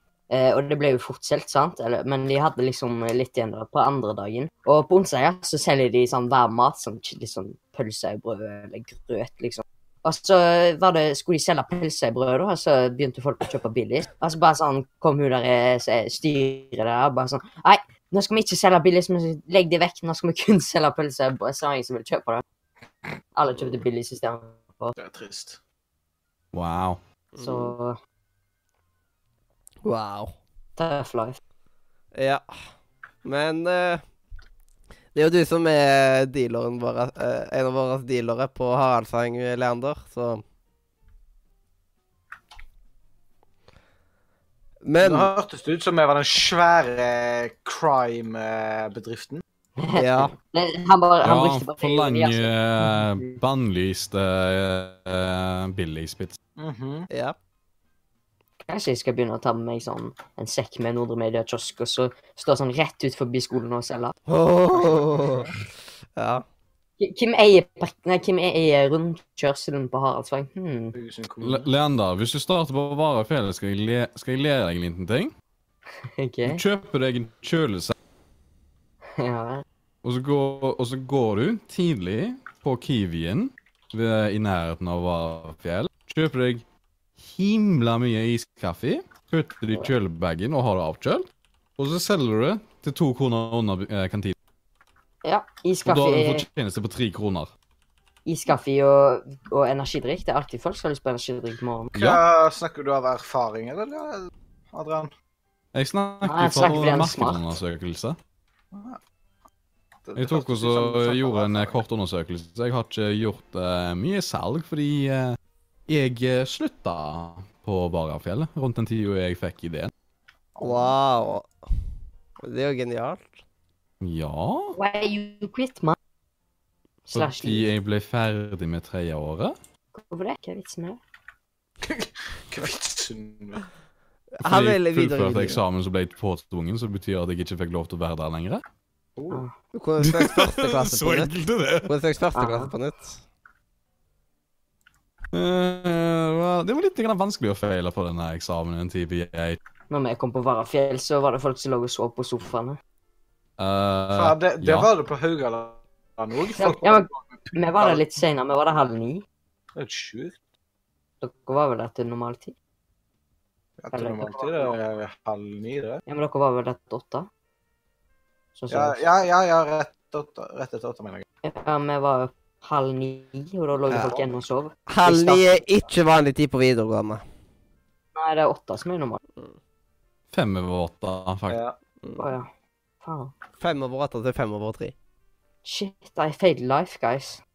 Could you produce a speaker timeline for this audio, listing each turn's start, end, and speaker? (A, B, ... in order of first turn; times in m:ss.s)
0:00.3-0:22.4 A
0:23.3-0:24.9 A
0:25.0-0:25.6 B
0:26.5-0:27.0 C
0:27.3-0:27.7 D
0:27.4-0:28.0 A
0:29.8-0:30.4 D
0:30.8-0:31.4 A
0:32.1-0:32.7 D
0:33.2-0:34.0 D
0:35.1-0:40.4 D
0:44.8-0:45.3 D
0:45.0-0:49.4 B
0:49.8-0:53.3 A
0:49.9-0:50.3 D
0:51.2-0:56.4 C
0:56.6-0:57.1 B
0:57.1-0:57.4 D
0:58.7-1:04.1 A
1:04.3-1:05.6 D
1:05.2-1:05.4 B
1:06.2-1:06.4 D
1:07.0-1:11.0 A
1:10.9-1:11.7 B
1:11.4-1:15.3 C
1:16.2-1:16.6 A
1:16.4-1:17.9 C
1:19.2-1:19.6 A
1:20.0-1:26.6 C
1:27.2-1:34.4 C
1:35.2-1:36.4 A
1:35.8-1:37.5 C
1:38.2-1:41.9 A
1:41.9-1:45.1 B
1:42.0-1:42.2 C
1:45.7-1:48.2 C
1:46.2-1:47.6 A
1:48.7-1:49.0 B
1:50.0-1:51.8 B
1:50.2-1:59.9 C
2:00.6-2:01.0 B
2:00.6-2:01.5 D
2:02.4-2:03.4 D
2:04.0-2:04.7 C
2:04.7-2:06.0 A
2:07.1-2:07.7 A
2:07.1-2:09.6 C
2:09.9-2:11.0 A
2:11.8-2:13.6 B
2:14.4-2:15.6 D
2:14.4-2:18.6 C
2:19.2-2:19.4 B
2:19.7-2:21.3 D
2:20.0-2:21.9 C
2:21.8-2:23.2 D
2:22.3-2:22.7 A
2:25.3-2:29.6 C
2:29.9-2:32.8 A
2:33.6-2:34.9 C
2:34.1-2:38.0 B
2:36.5-2:39.2 A
2:39.8-2:40.4 B
2:41.2-2:42.5 A
2:43.8-2:46.0 B
2:43.9-2:44.7 A
2:46.1-2:47.3 A
2:48.6-2:49.0 A
2:48.7-2:51.2 B
2:51.4-2:55.7 A
2:53.9-2:54.2 D
2:54.9-2:57.2 D
2:58.1-2:59.2 A
3:00.3-3:01.6 C
3:01.5-3:01.7 B
3:02.2-3:02.5 A
3:03.0-3:03.3 A
3:03.6-3:04.9 D
3:05.6-3:07.4 A